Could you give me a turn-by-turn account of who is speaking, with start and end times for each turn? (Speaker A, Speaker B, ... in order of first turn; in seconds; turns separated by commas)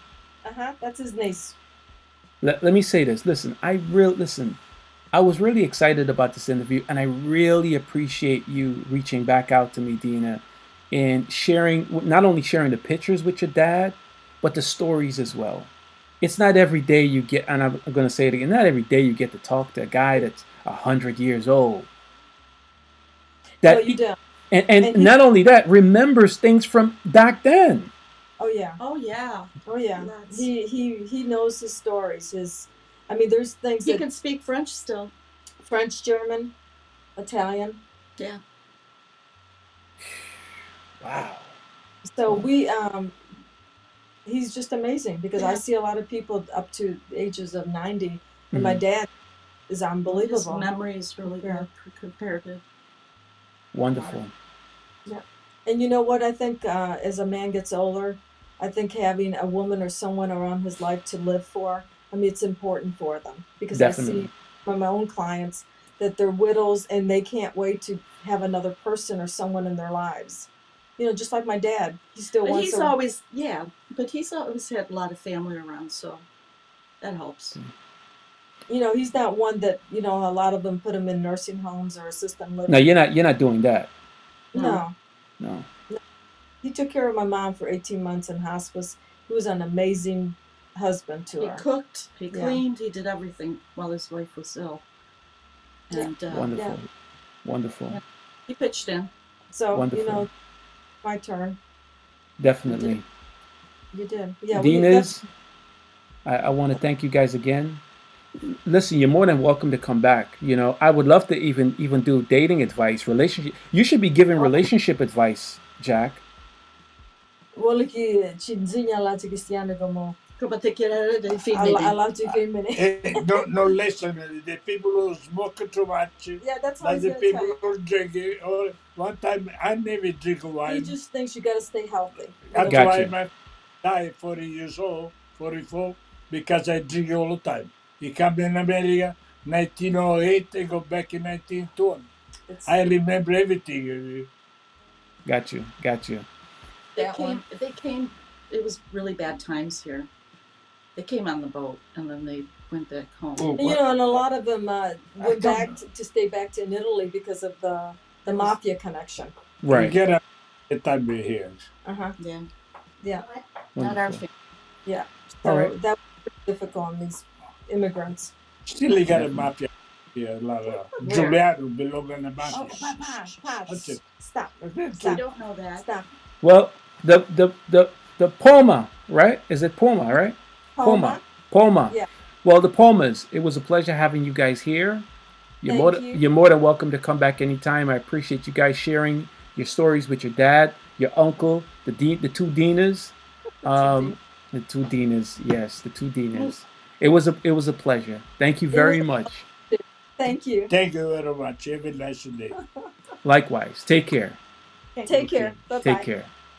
Speaker A: 0.4-1.6, Speaker B: 2.4-4.6, Speaker B: 5.1-15.7, Speaker B: 16.2-21.9, Speaker A: 23.6-24.2, Speaker B: 23.6-24.0, Speaker B: 24.5-27.9, Speaker A: 24.8-25.1, Speaker A: 28.4-28.8, Speaker C: 28.8-30.5, Speaker A: 29.7-34.0, Speaker C: 33.9-35.1, Speaker A: 35.6-36.5, Speaker A: 37.2-37.8, Speaker B: 41.0-41.5, Speaker A: 42.1-43.2, Speaker A: 44.3-49.1, Speaker B: 48.5-48.8, Speaker A: 49.7-50.7, Speaker C: 50.1-52.6, Speaker A: 51.2-51.7, Speaker B: 53.7-54.3, Speaker A: 55.1-73.0, Speaker B: 63.7-64.3, Speaker C: 72.4-76.2, Speaker C: 77.0-77.6, Speaker A: 78.7-82.9, Speaker B: 82.7-83.9, Speaker C: 84.5-84.8, Speaker A: 84.5-85.0, Speaker B: 85.4-85.7, Speaker A: 86.6-91.6, Speaker C: 91.3-94.8, Speaker A: 92.3-92.6, Speaker C: 95.9-96.5, Speaker A: 95.9-96.8, Speaker B: 96.3-96.9, Speaker B: 97.4-98.0, Speaker C: 97.9-99.1, Speaker A: 99.5-100.3, Speaker B: 99.7-100.3, Speaker A: 101.0-101.6, Speaker B: 102.4-103.0, Speaker A: 102.7-103.0, Speaker A: 103.9-105.2, Speaker B: 104.5-105.2, Speaker B: 106.2-107.8, Speaker B: 108.4-116.2, Speaker A: 117.5-120.2, Speaker C: 120.4-122.4, Speaker A: 121.5-123.4, Speaker D: 122.8-130.9, Speaker A: 126.4-127.6, Speaker A: 130.7-133.0, Speaker D: 132.5-133.3, Speaker B: 132.6-133.1, Speaker D: 133.8-142.1, Speaker A: 142.5-142.8, Speaker D: 142.7-144.3, Speaker B: 145.3-146.3, Speaker C: 146.9-150.1, Speaker A: 147.0-147.4, Speaker C: 151.0-153.8, Speaker D: 153.4-153.8, Speaker A: 153.6-159.3, Speaker D: 155.2-155.7, Speaker B: 159.6-160.0, Speaker D: 159.7-161.6, Speaker A: 161.8-162.2, Speaker C: 162.2-162.5, Speaker C: 163.8-164.3, Speaker B: 163.8-164.2, Speaker A: 164.9-168.3, Speaker B: 165.4-165.7, Speaker D: 168.7-172.9, Speaker B: 169.1-169.5, Speaker C: 171.1-171.4, Speaker A: 172.5-175.2, Speaker C: 172.5-173.0, Speaker D: 173.7-174.0, Speaker C: 175.0-175.9, Speaker A: 175.8-176.1, Speaker B: 176.4-185.1, Speaker A: 180.8-181.2, Speaker B: 185.6-193.1, Speaker A: 185.7-186.2, Speaker A: 193.6-194.2, Speaker B: 193.6-199.5, Speaker A: 198.7-200.7, Speaker D: 200.7-202.5, Speaker B: 203.2-204.4, Speaker A: 205.0-206.1, Speaker B: 205.1-206.3